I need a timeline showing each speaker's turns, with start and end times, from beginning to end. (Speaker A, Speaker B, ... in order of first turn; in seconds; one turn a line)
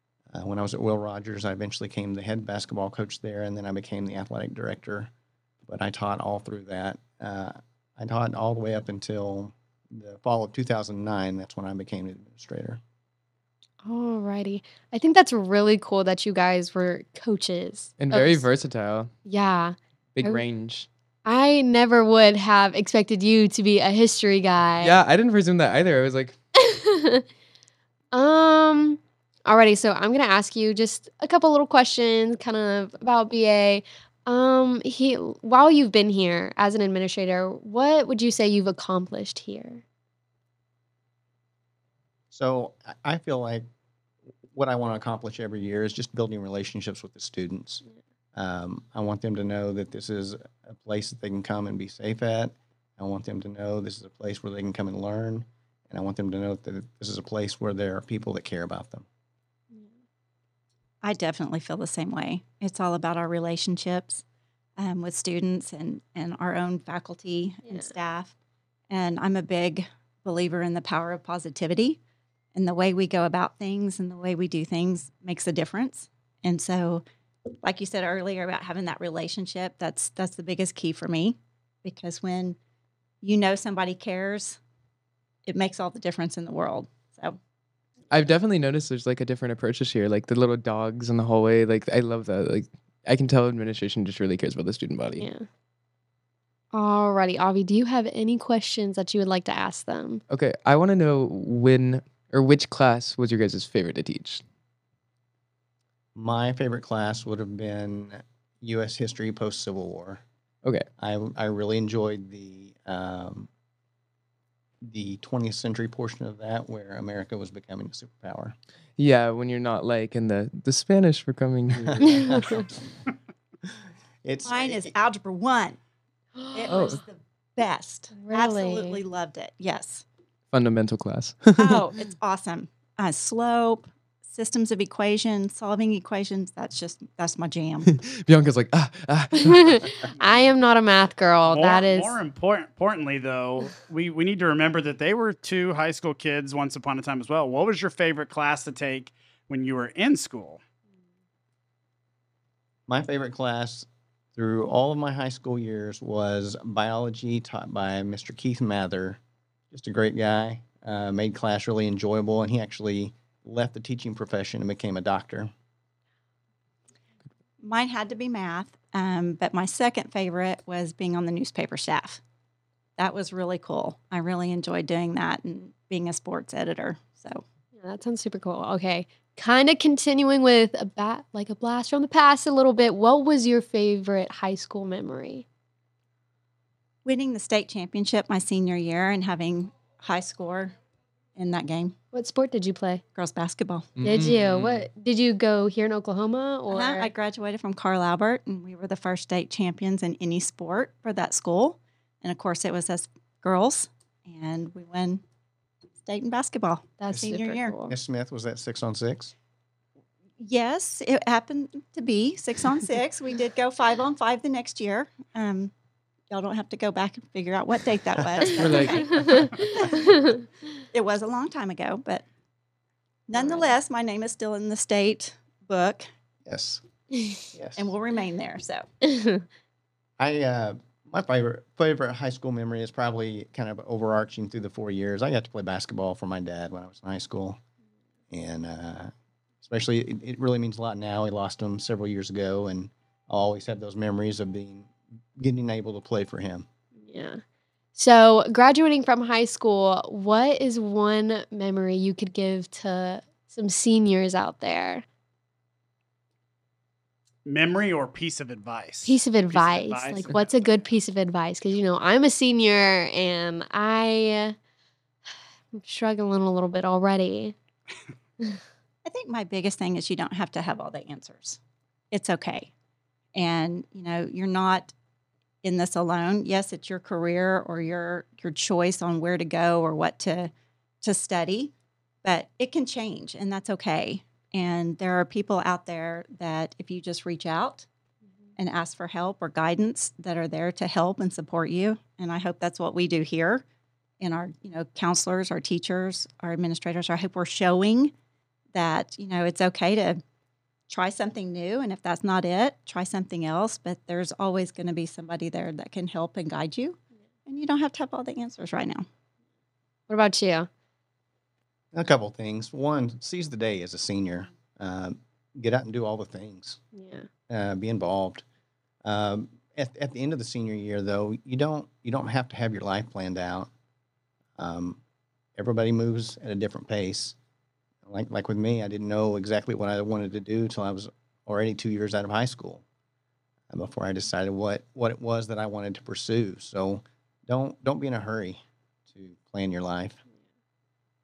Speaker A: 0.3-5.1
Speaker A: 5.6-12.8
Speaker B: 13.8-18.4
Speaker C: 18.0-19.1
Speaker B: 19.2-20.4
Speaker C: 20.1-20.9
Speaker B: 21.2-25.0
Speaker C: 24.8-26.3
Speaker B: 26.6-27.2
Speaker B: 28.1-39.8
Speaker A: 42.3-43.6
Speaker A: 44.5-59.0
Speaker D: 61.0-64.2
Speaker D: 64.8-68.3
Speaker D: 68.9-72.0
Speaker D: 72.5-77.0
Speaker D: 77.6-82.6
Speaker D: 83.2-84.6
Speaker D: 85.5-87.4
Speaker C: 88.1-95.3
Speaker B: 95.2-95.5
Speaker B: 96.7-100.2
Speaker C: 100.3-104.4
Speaker A: 106.1-110.2
Speaker A: 111.0-113.5
Speaker A: 114.8-118.5
Speaker C: 119.0-122.2
Speaker A: 121.8-122.6
Speaker B: 122.2-122.6
Speaker A: 124.2-124.9
Speaker D: 124.4-125.8
Speaker B: 126.3-126.9
Speaker D: 126.5-130.0
Speaker C: 126.7-127.0
Speaker B: 128.1-129.0
Speaker C: 130.5-131.9
Speaker D: 131.6-137.9
Speaker C: 137.8-139.8
Speaker B: 139.4-142.2
Speaker E: 141.4-150.6
Speaker A: 152.9-159.2
Speaker A: 159.7-165.5
Speaker D: 167.6-172.2
Speaker D: 173.0-177.4
Speaker B: 177.8-185.4
Speaker D: 187.0-190.7
Speaker D: 191.3-191.9
Speaker B: 192.1-193.0
Speaker D: 193.1-194.0
Speaker C: 194.0-194.4
Speaker B: 194.0-197.1
Speaker E: 194.4-194.8
Speaker D: 196.7-205.2
Speaker D: 206.0-207.7
Speaker B: 207.0-207.9
Speaker A: 207.9-209.3
Speaker D: 210.4-215.7
Speaker D: 216.3-220.2
Speaker A: 218.2-218.5
Speaker C: 218.5-219.3
Speaker B: 219.1-219.4
Speaker B: 220.0-220.4
Speaker D: 220.9-222.2
Speaker D: 223.3-226.1
Speaker A: 226.5-226.8
Speaker B: 227.1-227.4
Speaker A: 227.5-227.9
Speaker D: 227.8-228.9
Speaker B: 229.0-229.4
Speaker A: 230.2-237.6
Speaker A: 238.3-239.1
Speaker A: 239.6-246.7
Speaker B: 247.0-247.4
Speaker B: 247.9-255.0
Speaker E: 257.4-260.5
Speaker B: 259.0-264.5
Speaker B: 265.7-267.5
Speaker D: 269.0-271.6
Speaker D: 272.1-272.7
Speaker D: 273.3-274.9
Speaker D: 275.6-280.5
Speaker D: 281.0-287.9
Speaker D: 288.6-293.6
Speaker D: 294.2-298.1
Speaker D: 298.7-300.2
Speaker D: 300.9-309.0
Speaker B: 310.1-310.7
Speaker A: 311.9-316.8
Speaker B: 316.9-317.3
Speaker A: 317.5-318.4
Speaker A: 319.0-323.7
Speaker A: 324.6-325.0
Speaker A: 325.6-327.4
Speaker A: 328.1-332.8
Speaker A: 333.7-340.2